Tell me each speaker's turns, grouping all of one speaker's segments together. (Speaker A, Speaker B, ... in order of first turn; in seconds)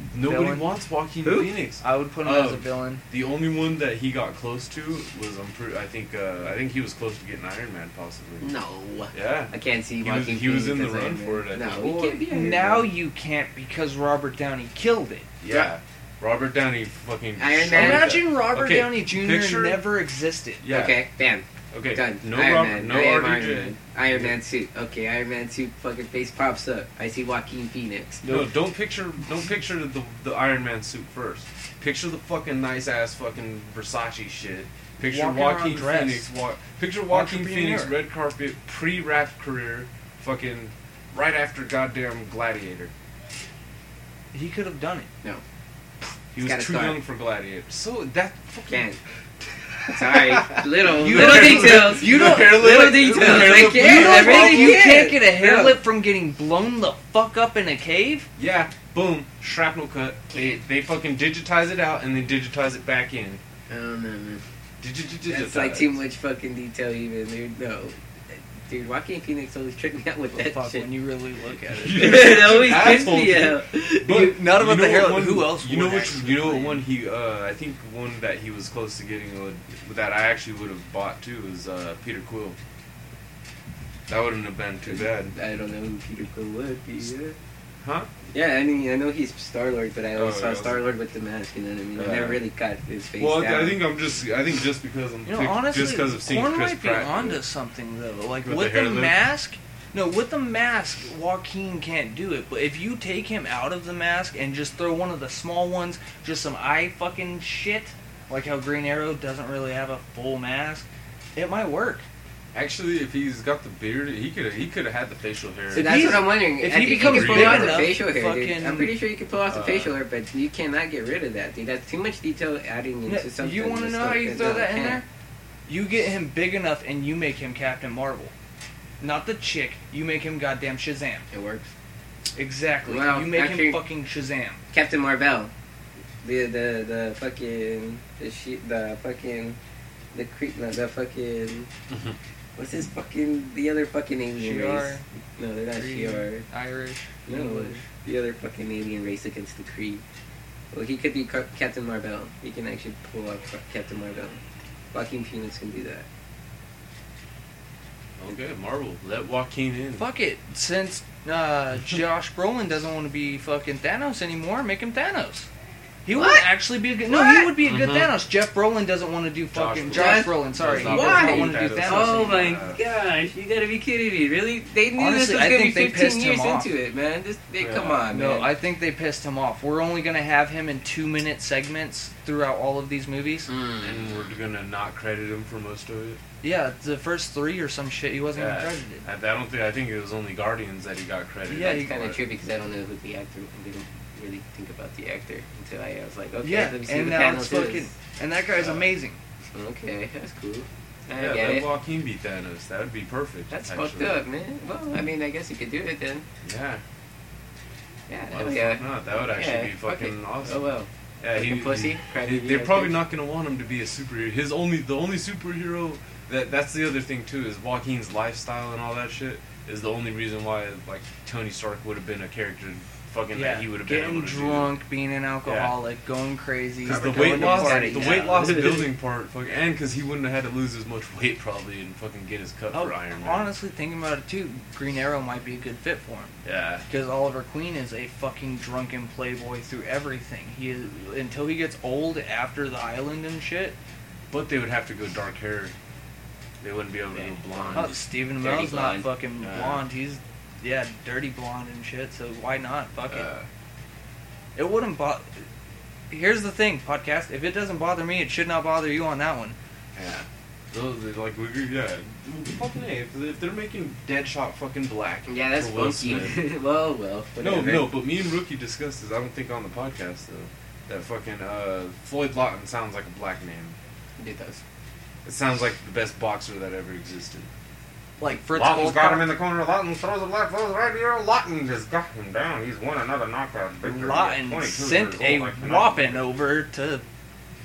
Speaker A: 0.1-8.5, 9.1-12.2, 15.4-19.8, 20.6-21.0, 21.7-24.4, 28.2-42.9, 46.3-48.9, 49.4-54.9, 58.4-63.4, 64.8-66.0, 71.7-82.6, 84.1-85.3, 87.8-88.1, 90.1-90.8, 92.0-92.4, 93.2-97.4, 98.4-99.2, 112.5-116.2, 116.8-117.9, 119.5-119.9, 141.9-142.2, 158.2-160.0, 167.6-168.1, 169.5-172.8, 177.6-178.1, 183.8-186.2, 188.3-192.2, 198.6-198.9, 201.2-204.2, 206.4-206.8, 208.3-210.7, 211.2-224.7, 225.4-225.7, 226.8-233.5, 236.4-236.8, 244.3-245.7, 246.6-248.0, 249.4-249.8, 253.1-253.4, 259.9-266.4, 267.4-273.8, 275.2-277.5, 278.5-286.2
Speaker B: 0.2-0.7, 1.8-3.0, 12.3-15.3, 17.7-20.6, 35.0-36.3, 37.1-38.0, 44.3-45.1, 50.9-58.3, 70.3-72.4, 74.0-76.8, 95.2-112.0, 115.7-118.9, 123.0-125.0, 125.7-128.3, 129.0-131.2, 132.4-134.6, 144.4-145.0, 145.7-147.8, 160.0-165.5, 166.0-172.4, 174.9-176.7, 178.1-183.5, 186.4-189.0, 191.5-192.1, 196.4-199.2, 223.3-228.4, 232.7-236.3, 236.9-243.8, 247.7-253.3, 254.6-255.4, 256.1-259.6, 278.2-279.3, 283.8-287.0
Speaker C: 1.2-1.5, 8.4-12.9, 17.4-18.2, 20.6-28.4, 46.4-47.0, 48.7-49.0, 49.9-55.8, 60.3-60.6, 63.7-64.4, 65.2-70.9, 71.9-74.3, 84.8-87.4, 88.3-93.8, 115.7-125.0, 131.3-131.7, 132.8-133.8, 134.7-135.5, 136.2-139.6, 140.1-141.7, 142.6-146.4, 147.2-150.0, 150.7-154.4, 154.9-156.1, 166.1-166.5, 167.1-167.5, 169.9-178.5, 183.5-184.0, 191.6-197.9, 199.5-201.7, 203.5-206.2, 208.1-213.0, 226.8-228.9, 247.1-249.1, 265.3-267.9, 274.2-274.6